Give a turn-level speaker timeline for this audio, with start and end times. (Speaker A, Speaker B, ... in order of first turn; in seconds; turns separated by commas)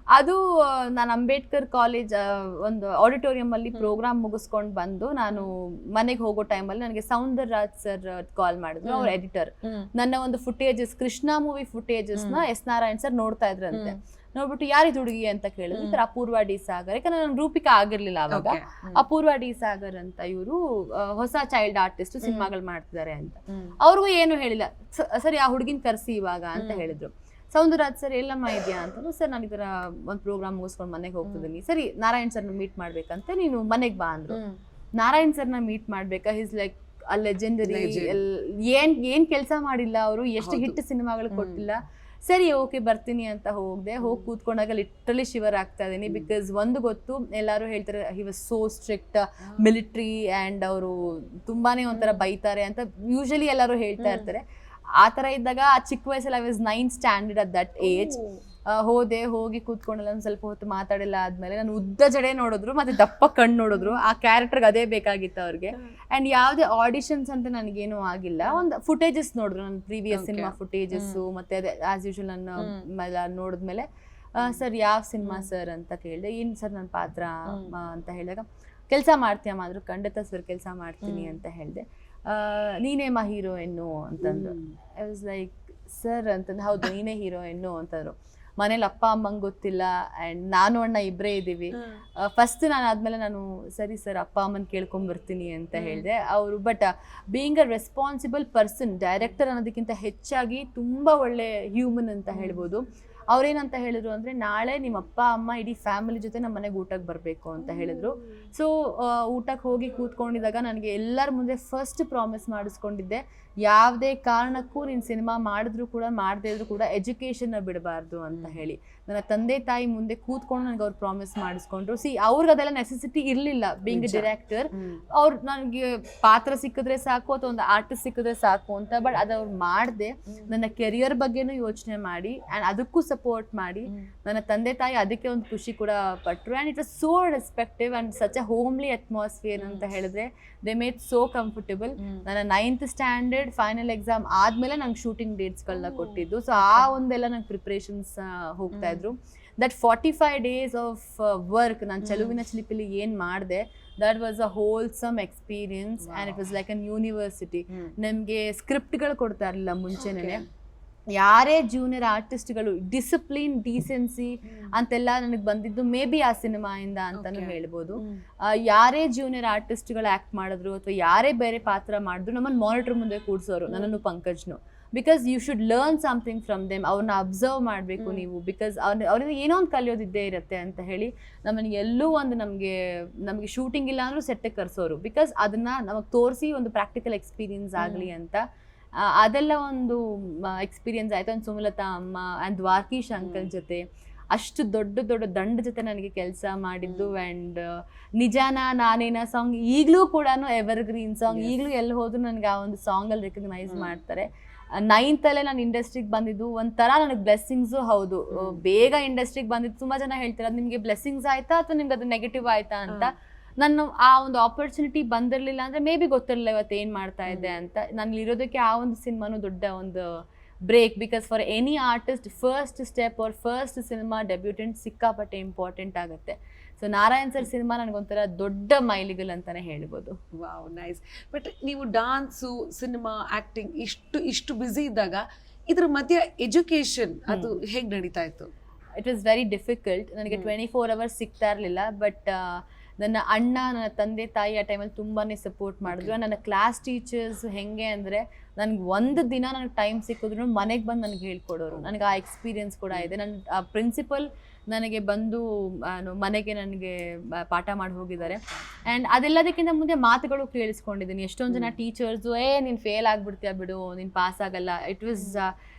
Speaker A: 0.1-34.4, Speaker B: 8.8-9.1, Speaker B: 9.6-9.9, Speaker B: 12.1-12.4, Speaker B: 13.7-14.0, Speaker B: 15.7-16.0, Speaker B: 18.3-19.0, Speaker B: 22.2-22.5, Speaker B: 23.5-23.8, Speaker B: 26.6-26.9, Speaker B: 31.2-31.5, Speaker B: 34.3-34.6, Speaker A: 35.0-54.4, Speaker B: 37.6-38.2, Speaker B: 40.4-40.8, Speaker B: 41.3-41.6, Speaker B: 44.0-44.3, Speaker B: 49.4-49.7, Speaker B: 51.9-52.3, Speaker B: 54.0-54.3, Speaker A: 55.0-58.1, Speaker B: 57.8-58.4, Speaker A: 58.7-160.4, Speaker B: 63.7-64.0, Speaker B: 70.1-71.2, Speaker B: 72.6-72.8, Speaker B: 75.2-75.5, Speaker B: 77.5-77.7, Speaker B: 81.0-81.4, Speaker B: 84.2-84.7, Speaker B: 91.7-92.0, Speaker B: 95.7-96.1, Speaker B: 102.3-102.7, Speaker B: 107.6-108.0, Speaker B: 118.3-118.6, Speaker B: 123.9-125.0, Speaker B: 139.6-139.8, Speaker B: 142.0-142.2, Speaker B: 145.7-146.9, Speaker B: 148.7-149.1, Speaker B: 152.0-152.4, Speaker B: 156.0-156.4, Speaker B: 157.7-157.9, Speaker B: 159.9-160.4, Speaker A: 161.2-188.4, Speaker B: 164.4-164.8, Speaker B: 167.1-168.2, Speaker B: 173.7-174.0, Speaker B: 178.0-178.3, Speaker B: 187.8-188.1, Speaker A: 189.0-230.2, Speaker B: 193.2-193.5, Speaker B: 196.8-197.1, Speaker B: 201.3-201.5, Speaker B: 203.7-203.9, Speaker B: 208.3-208.6, Speaker B: 217.3-217.5, Speaker B: 230.3-238.5, Speaker A: 239.0-265.5, Speaker B: 245.8-246.2, Speaker B: 258.3-258.6, Speaker B: 261.5-261.8